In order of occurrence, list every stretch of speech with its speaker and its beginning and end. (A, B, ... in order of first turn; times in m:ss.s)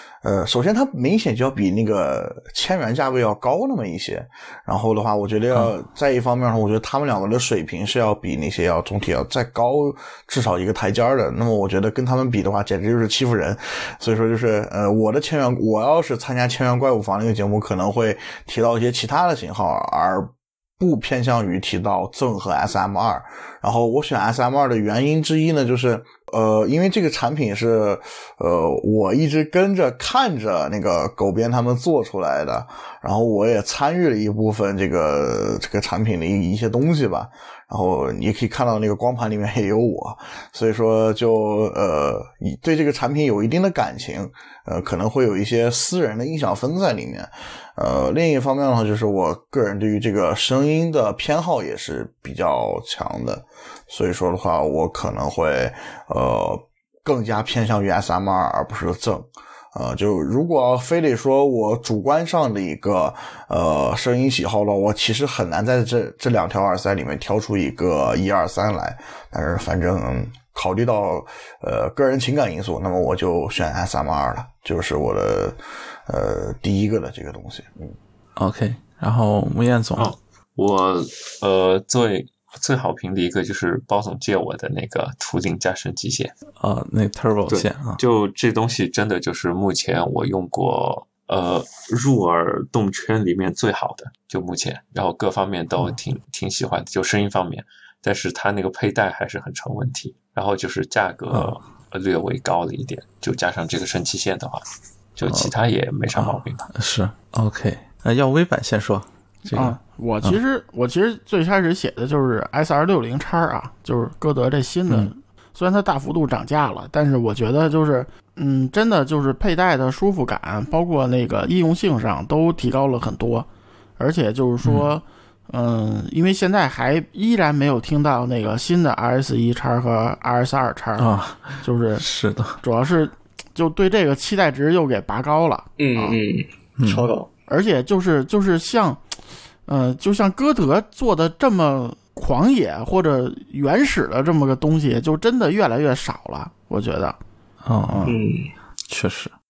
0:00.2-1:17.9 A
1:18.4-1:20.1 B
1:20.0-1:26.3 C
1:26.6-1:28.0 B
1:27.5-1:44.6 C
1:45.2-1:46.7 C
1:45.2-1:45.5 B
1:46.1-1:50.4 B
1:49.5-2:03.5 D
2:04.0-2:12.0 D
2:04.6-2:04.9 B
2:11.0-2:12.6 B
2:12.6-2:16.2 D
2:15.8-2:17.3 E
2:16.8-2:17.1 B
2:17.5-2:19.0 D
2:19.7-2:27.2 D
2:27.6-2:28.0 B
2:27.9-2:28.2 D
2:28.0-2:28.5 E
2:28.9-2:29.3 B